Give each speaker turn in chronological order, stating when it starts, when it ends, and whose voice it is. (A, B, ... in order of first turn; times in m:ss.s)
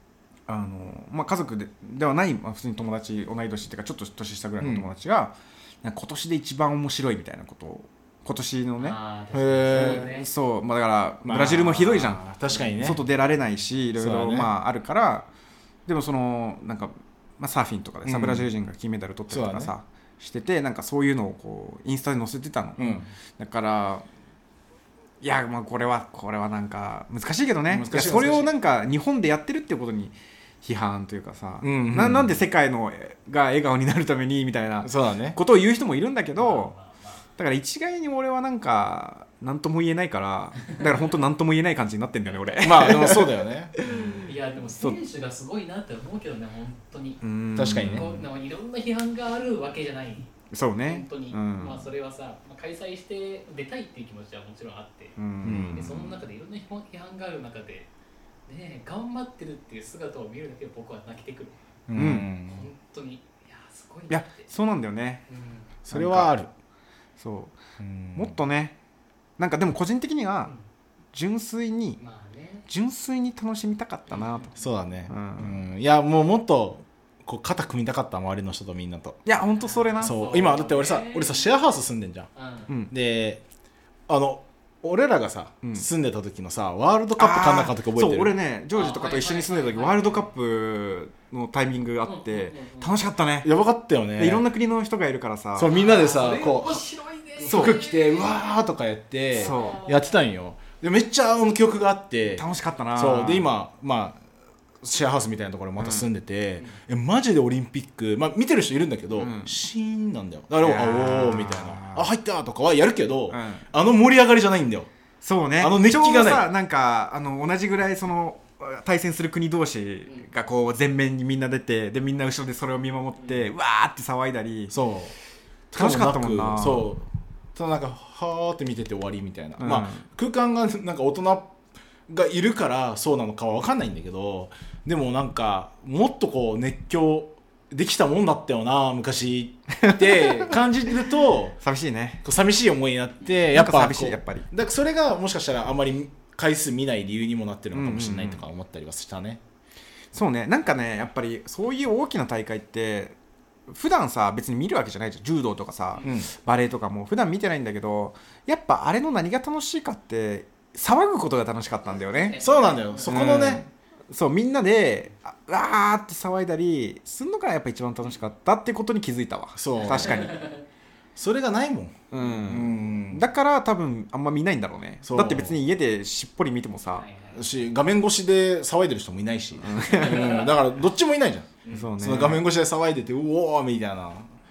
0:00.5-0:09.0 A
0:04.6-0:04.8 B
0:08.8-0:10.3 C
0:09.3-0:10.1 B
0:09.7-0:15.3 A
0:11.2-0:13.0 B
0:14.0-0:14.5 B
0:15.8-0:24.0 A
0:18.0-0:18.5 B
0:19.3-0:19.7 B
0:22.8-0:23.1 B
0:25.2-0:36.7 A
0:27.7-0:28.5 B
0:31.6-0:32.4 B
0:34.8-0:35.4 B
0:36.4-0:37.2 C
0:37.4-0:45.0 A
0:42.6-0:43.7 B
0:43.8-0:50.3 C
0:47.2-0:48.2 A
0:47.6-0:48.1 B
0:50.5-0:51.9 A
0:50.8-0:57.9 C
0:55.2-0:55.8 A
0:55.4-0:56.2 B
0:58.5-1:01.6 C
1:01.9-1:02.7 B
1:01.9-1:02.3 A
1:02.1-1:04.5 C
1:04.1-1:05.2 A
1:05.3-1:05.7 C
1:05.8-1:06.5 B
1:05.9-1:06.3 A
1:07.2-1:07.6 A
1:07.8-1:08.3 B
1:08.2-1:08.8 A
1:09.4-1:10.5 A
1:11.1-1:12.0 A
1:12.0-1:12.7 C
1:12.7-1:14.5 A
1:14.1-1:14.5 C
1:14.6-1:19.2 B
1:15.1-1:15.6 A
1:19.2-1:20.4 A
1:19.5-1:21.5 C
1:20.0-1:22.3 B
1:22.3-1:22.7 C
1:22.7-1:22.9 A
1:22.9-1:23.4 B
1:24.1-1:28.4 B
1:25.6-1:25.9 A
1:27.2-1:33.5 A
1:28.7-1:30.3 C
1:32.0-1:33.0 C
1:33.4-1:34.4 B
1:34.2-1:35.7 A
1:35.6-1:42.4 B
1:35.7-1:38.6 C
1:37.4-1:37.8 A
1:39.4-1:39.8 A
1:39.4-1:40.1 C
1:42.3-1:43.5 A
1:43.0-1:44.2 B
1:44.8-1:54.9 B
1:45.8-1:46.1 A
1:49.1-1:49.6 A
1:50.6-1:52.1 A
1:53.3-1:53.6 A
1:55.2-2:04.8 A
1:55.6-1:56.5 B
2:04.7-2:05.1 B
2:05.7-2:11.5 B
2:05.7-2:06.9 A
2:09.6-2:10.0 A
2:12.1-2:21.6 B
2:19.7-2:20.6 A
2:21.6-2:22.2 A
2:22.2-2:29.4 B
2:23.5-2:24.5 A
2:27.7-2:28.4 A
2:30.1-2:33.2 A
2:33.7-2:42.4 A
2:36.0-2:36.3 B
2:41.9-2:43.2 C
2:42.4-2:43.6 B
2:43.0-2:50.4 A
2:49.6-2:50.3 B
2:50.1-2:50.5 C
2:51.2-2:53.2 B
2:52.1-2:57.0 A
2:55.0-2:55.6 B
2:56.9-2:57.7 C
2:57.3-3:04.3 B
2:59.6-3:00.5 A
3:00.2-3:00.5 C
3:01.6-3:01.9 C
3:01.7-3:02.4 A